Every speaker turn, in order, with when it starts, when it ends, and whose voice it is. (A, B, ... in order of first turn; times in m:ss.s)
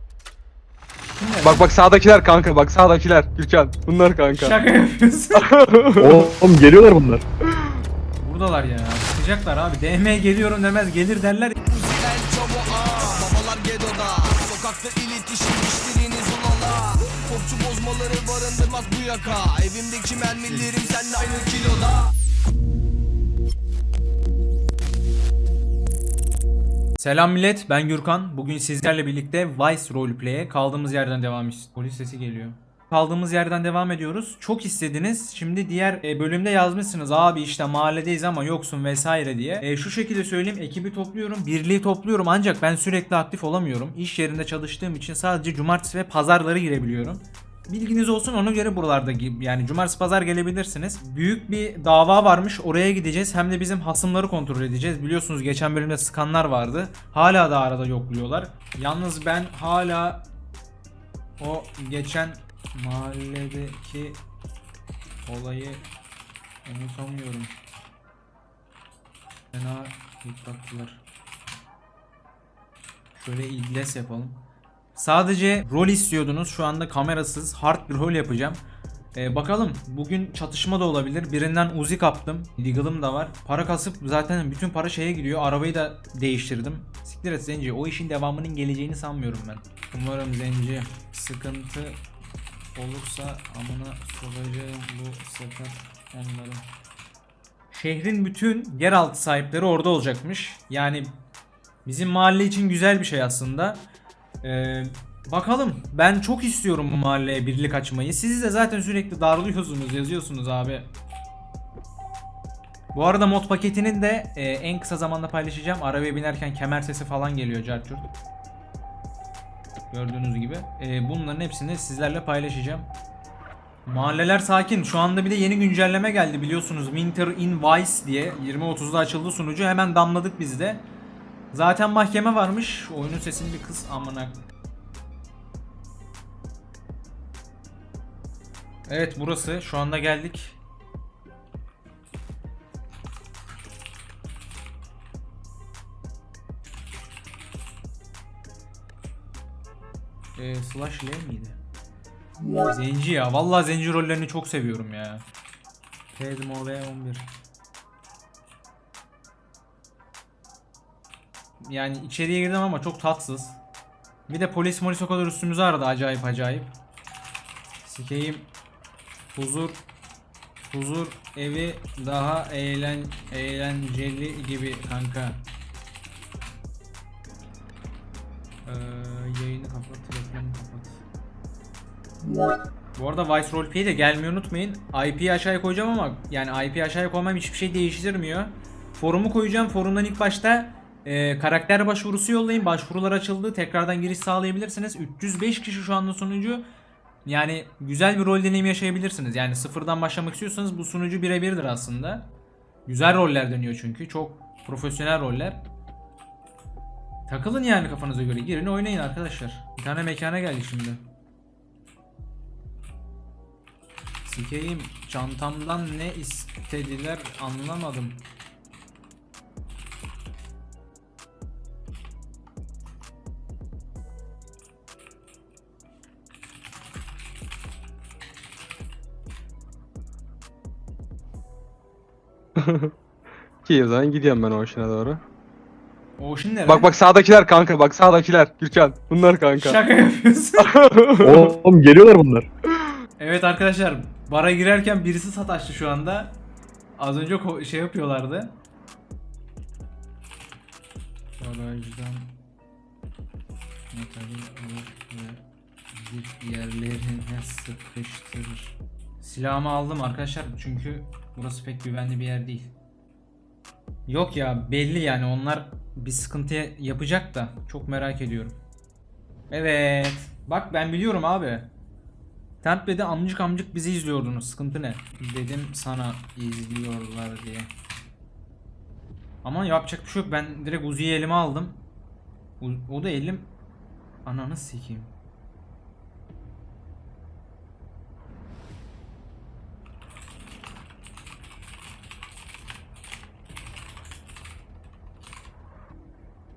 0:01.2-0:01.7 A
0:01.4-0:04.6 B
0:04.3-0:05.6 A
0:05.4-0:06.3 B
0:06.0-0:07.2 C
0:08.2-0:11.6 A
0:11.7-0:22.1 D
0:20.4-0:20.8 A
0:27.0-1:00.3 A
1:01.4-1:04.2 A
1:05.2-1:05.8 A
1:06.6-1:07.5 A
1:09.5-1:11.0 A
1:13.1-1:14.4 A
1:15.0-1:18.6 A
1:19.2-1:32.0 A
1:32.8-1:36.7 A
1:37.7-1:41.2 A
1:41.8-1:43.8 A
1:44.4-1:50.9 A
1:52.9-1:58.1 A
1:59.9-2:02.9 A
2:03.9-2:10.8 A
2:11.5-2:14.4 A
2:18.9-2:20.6 A
2:30.4-2:31.6 A
2:32.6-2:35.2 A
2:36.2-2:37.3 A
2:41.6-2:43.6 A
2:44.3-2:46.7 A
2:47.8-2:48.5 A
2:49.3-2:49.8 A
2:50.7-2:55.4 A
2:58.6-3:01.0 A
3:03.0-3:16.6 A
3:17.3-3:22.3 A
3:22.9-3:25.6 A
3:27.3-3:31.0 A
3:34.2-3:38.2 A
3:52.6-3:52.9 B
3:53.6-3:55.2 B
3:56.2-3:56.9 A
3:56.7-3:59.8 B
3:59.6-4:00.8 A
4:00.6-4:01.5 B
4:01.2-4:02.5 C
4:03.2-4:06.4 A
4:07.0-4:08.6 A
4:11.4-4:12.4 A
4:13.9-4:22.7 A
4:24.1-4:28.6 A
4:29.5-4:31.7 A
4:32.6-4:37.7 A
4:39.4-4:41.8 A
4:42.6-4:43.5 A
4:44.2-4:45.1 A